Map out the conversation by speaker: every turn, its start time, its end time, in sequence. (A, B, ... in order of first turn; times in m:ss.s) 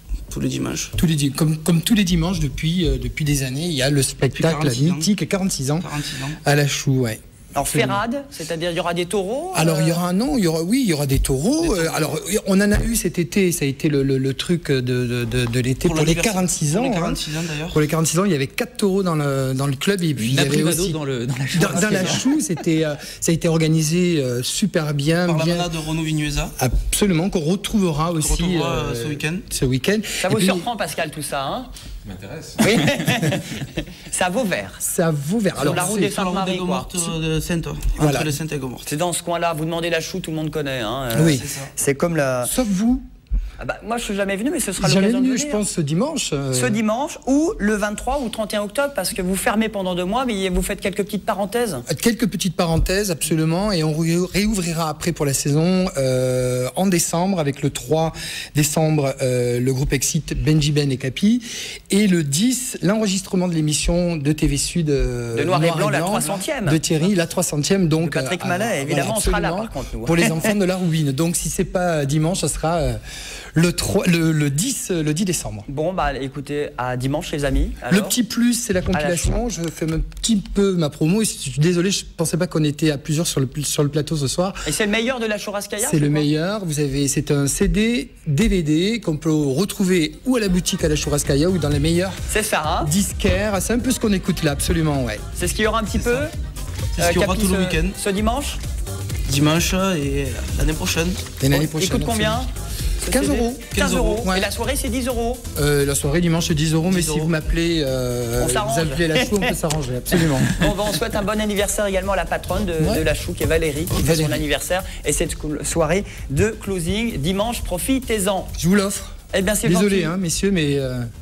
0:00.3-0:00.9 A
0:01.0-0:05.9 B
0:04.3-0:05.1 A
0:05.8-0:06.4 A
0:06.4-0:08.0 B
0:07.5-0:10.0 C
0:09.5-0:21.0 B
0:15.8-0:17.8 A
0:20.2-0:22.2 D
0:21.5-0:25.7 B
0:25.2-0:26.5 A
0:26.6-0:30.7 B
0:28.2-0:29.4 A
0:30.2-0:31.7 C
0:32.6-0:34.8 C
0:34.8-0:36.2 B
0:35.6-0:37.0 C
0:35.6-0:38.9 A
0:38.0-0:38.3 B
0:38.8-0:42.5 C
0:41.1-0:41.4 B
0:41.3-0:41.7 A
0:42.4-0:43.0 B
0:43.6-0:45.6 C
0:44.8-0:46.8 B
0:46.5-0:51.8 C
0:51.9-1:13.0 B
1:05.3-1:06.9 C
1:08.0-1:10.5 C
1:13.5-1:15.6 B
1:15.7-1:18.2 C
1:17.9-1:24.6 B
1:18.9-1:19.4 C
1:24.6-1:26.3 C
1:25.8-1:32.2 B
1:32.3-1:32.9 C
1:32.8-1:35.2 B
1:35.4-1:36.3 C
1:36.9-1:38.0 A
1:37.0-1:38.6 C
1:39.2-1:41.3 A
1:41.4-1:42.4 B
1:41.5-1:45.4 C
1:43.0-1:44.5 B
1:43.7-1:44.3 A
1:45.5-1:50.6 B
1:46.8-1:47.3 A
1:48.4-1:49.5 C
1:50.2-1:58.5 C
1:52.8-1:53.0 B
1:53.9-1:54.4 B
1:58.6-2:01.1 B
1:59.3-2:00.1 C